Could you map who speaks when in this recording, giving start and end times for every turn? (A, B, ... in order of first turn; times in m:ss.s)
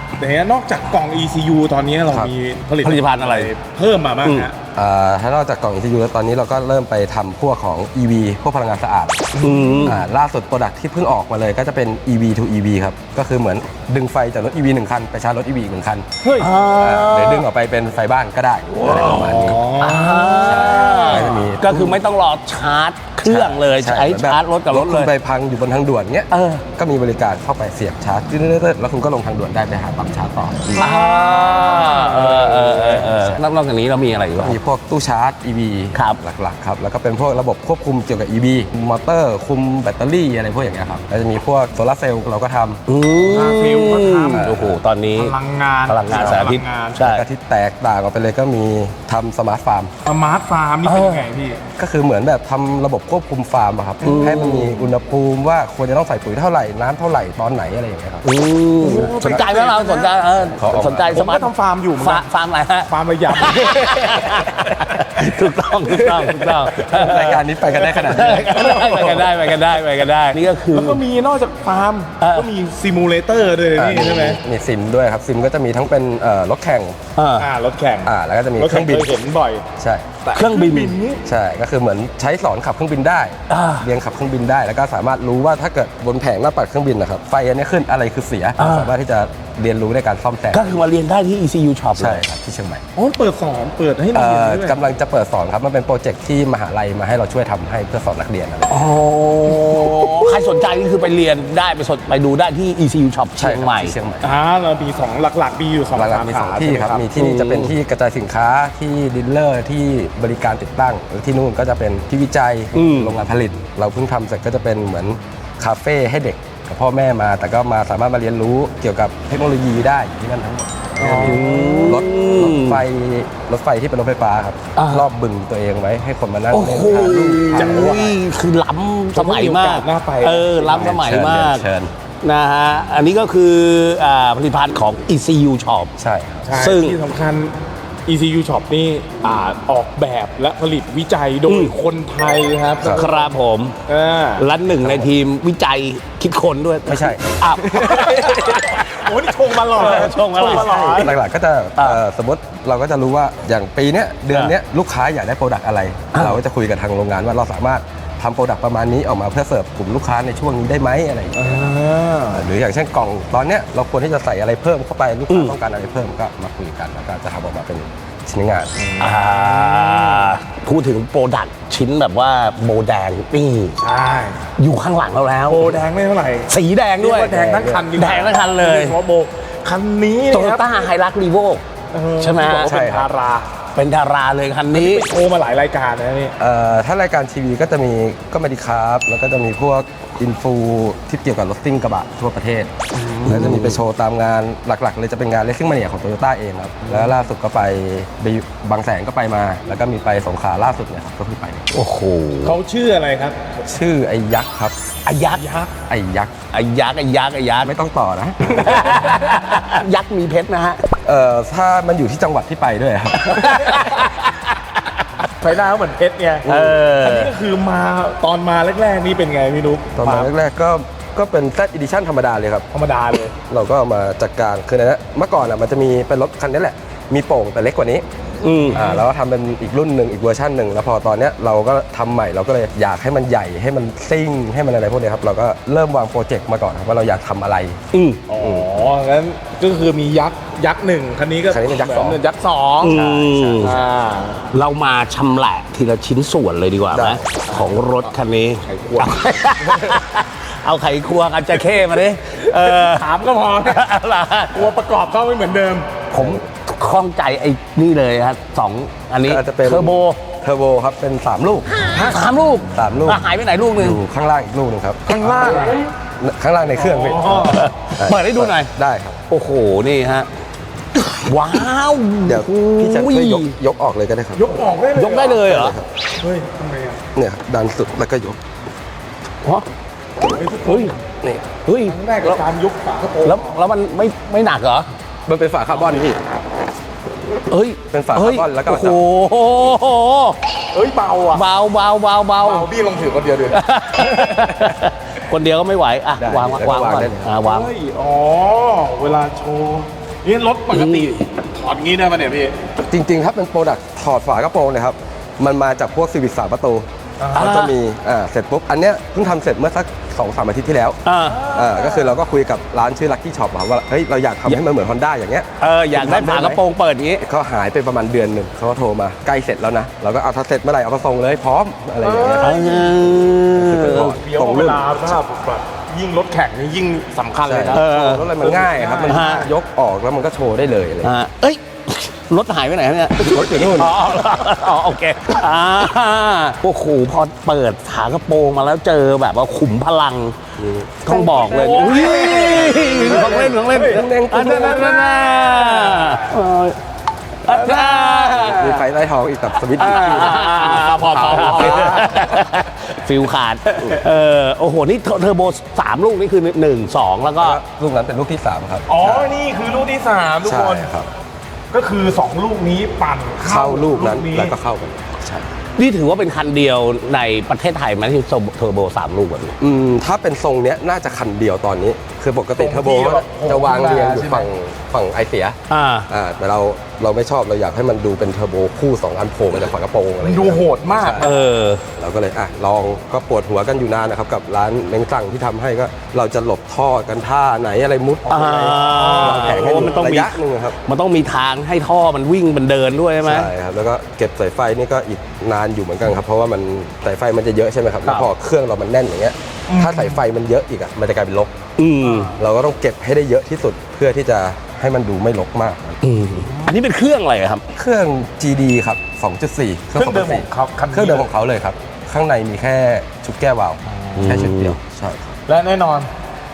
0:00.2-0:04.5 A
0:02.8-0:03.5 B
0:04.2-0:04.5 B
0:04.8-0:19.7 C
0:09.4-0:10.0 A
0:09.4-0:10.0 B
0:16.2-0:16.5 A
0:16.4-0:17.4 B
0:18.8-0:21.5 A
0:18.9-0:25.1 B
0:20.5-0:22.0 C
0:23.2-0:30.9 C
0:26.3-0:26.7 B
0:30.8-0:34.6 B
0:30.8-0:32.5 A
0:32.0-0:33.4 C
0:34.4-0:42.8 C
0:42.9-0:45.4 B
0:43.2-0:44.5 A
0:44.3-0:44.8 C
0:45.2-0:47.0 A
0:45.9-0:47.2 B
0:46.1-0:46.5 C
0:47.0-0:49.9 C
0:50.0-0:51.6 A
0:50.8-0:51.3 B
0:51.8-0:58.2 C
0:54.0-0:54.8 B
0:54.0-0:54.3 A
0:58.2-1:11.0 B
0:58.8-1:00.2 A
1:00.6-1:01.2 C
1:01.1-1:02.3 A
1:02.9-1:05.3 A
1:06.0-1:07.3 A
1:06.0-1:09.2 C
1:07.9-1:09.6 A
1:10.7-1:14.4 A
1:12.2-1:12.5 B
1:13.8-1:17.0 C
1:17.2-1:17.5 B
1:17.4-1:19.7 A
1:18.0-1:19.1 C
1:19.8-1:20.1 C
1:20.2-1:21.2 A
1:20.4-1:21.0 B
1:21.2-1:30.8 C
1:23.5-1:23.9 B
1:28.6-1:28.9 B
1:30.5-1:32.2 B
1:32.0-1:32.8 C
1:33.0-1:34.8 A
1:34.1-1:38.8 C
1:38.7-1:43.9 B
1:39.5-1:40.5 A
1:43.4-1:44.3 C
1:44.2-1:47.1 A
1:46.0-2:08.0 C
1:47.2-1:47.7 B
1:52.7-1:53.1 B
2:01.0-2:01.9 A
2:01.2-2:02.8 B
2:04.8-2:05.1 B
2:06.5-2:11.6 B
2:07.5-2:08.2 A
2:09.2-2:10.9 A
2:10.7-2:11.9 C
2:12.2-2:15.9 B
2:16.0-2:16.5 C
2:16.4-2:23.3 A
2:16.6-2:17.0 B
2:21.5-2:21.7 B
2:22.8-2:23.1 C
2:22.9-2:23.8 B
2:23.9-2:24.4 A
2:24.4-2:28.8 B
2:24.8-2:25.1 C
2:26.9-2:28.9 C
2:28.3-2:31.1 A
2:29.7-2:31.1 B
2:29.8-2:41.7 C
2:41.4-2:42.5 A
2:42.3-2:48.8 C
2:45.3-2:45.6 B
2:48.8-2:50.4 A
2:49.0-2:53.8 B
2:53.8-2:54.4 A
2:54.6-2:55.8 B
2:55.4-3:00.9 A
2:56.5-2:59.0 B
2:57.4-2:57.9 C
3:00.3-3:01.6 B
3:01.9-3:03.6 A
3:02.2-3:02.7 B
3:02.6-3:03.1 C
3:03.8-3:05.0 B
3:04.7-3:06.4 A
3:06.4-3:12.7 C
3:13.1-3:13.8 B
3:13.2-3:21.7 C
3:21.7-3:22.6 B
3:22.4-3:23.4 A
3:23.6-3:24.8 C
3:25.1-3:25.4 B
3:25.3-3:25.7 A
3:25.9-3:26.4 C
3:26.5-3:27.7 B
3:27.6-3:29.4 C
3:28.5-3:30.8 B
3:31.0-3:33.8 C
3:33.4-3:34.0 A
3:33.5-3:34.1 B
3:35.3-3:40.3 A
3:36.5-3:37.3 B
3:36.5-3:36.8 C
3:40.0-3:42.7 C
3:42.7-3:43.4 A
3:43.5-3:48.0 C
3:48.4-3:48.9 B
3:48.7-3:57.8 C
3:48.7-3:49.0 A
3:57.9-3:58.6 B
3:58.3-4:03.0 A
4:01.5-4:02.2 C
4:02.8-4:03.8 B
4:02.8-4:03.8 C
4:03.6-4:04.4 A
4:04.5-4:13.1 B
4:06.9-4:07.5 C
4:07.5-4:09.2 A
4:09.6-4:10.0 C
4:11.5-4:13.8 A
4:13.6-4:14.6 B
4:14.5-4:15.9 A
4:16.1-4:20.2 B
4:16.2-4:16.4 C
4:19.2-4:21.8 C
4:21.8-4:24.0 B
4:22.7-4:25.2 C
4:25.1-4:25.9 A
4:26.2-4:29.2 C
4:26.7-4:27.7 A
4:27.4-4:28.7 B
4:29.3-4:30.3 B
4:31.0-4:33.5 B
4:32.2-4:34.6 C
4:34.4-4:35.5 A
4:35.0-4:35.8 B
4:35.4-4:35.9 C
4:36.2-4:37.0 A
4:37.2-4:38.4 C
4:40.2-4:41.0 A
4:40.7-4:40.9 B
4:41.2-4:41.5 C
4:41.7-4:42.4 B
4:41.8-4:43.5 A
4:43.2-4:44.9 B
4:45.3-4:46.2 C
4:47.5-4:50.4 B
4:47.9-4:49.0 C
4:50.7-4:51.5 A
4:51.3-4:52.7 B
4:52.4-4:54.7 A
4:53.5-4:57.7 B
4:56.2-4:57.3 C
4:57.4-5:02.6 A
5:00.7-5:01.2 B
5:02.8-5:16.6 C
5:07.2-5:07.5 A
5:07.3-5:07.7 B
5:11.1-5:11.4 B
5:11.3-5:12.2 A
5:15.6-5:17.2 B
5:16.0-5:16.6 A
5:17.2-5:22.5 C
5:22.0-5:23.0 A
5:22.4-5:24.2 B
5:23.6-5:25.1 C
5:23.8-5:29.5 A
5:27.5-5:31.2 C
5:27.7-5:28.3 B
5:29.1-5:29.5 B
5:31.0-5:40.4 B
5:33.2-5:34.1 C
5:40.6-5:45.2 C
5:41.0-5:46.8 B
5:41.1-5:46.2 A
5:47.4-5:48.8 B
5:47.5-5:48.6 A
5:48.4-5:50.4 C
5:49.8-5:52.3 A
5:49.8-5:57.6 B
5:51.1-5:52.4 C
5:57.4-5:59.3 C
5:58.9-6:00.9 A
6:00.4-6:01.1 C
6:01.7-6:04.5 A
6:03.4-6:05.5 C
6:05.8-6:09.6 B
6:09.6-6:21.3 C
6:12.6-6:14.5 A
6:15.7-6:16.1 B
6:20.2-6:21.4 A
6:21.2-6:21.8 B
6:22.0-6:30.8 C
6:28.3-6:33.5 B
6:28.3-6:30.0 A
6:33.2-6:41.6 C
6:39.7-6:40.2 A
6:41.8-6:42.3 B
6:42.0-6:42.3 A
6:42.3-6:46.0 C
6:46.0-6:47.6 B
6:47.7-6:55.4 C
6:49.9-6:51.3 A
6:53.9-6:54.3 A
6:54.2-6:54.8 B
6:55.5-6:56.1 A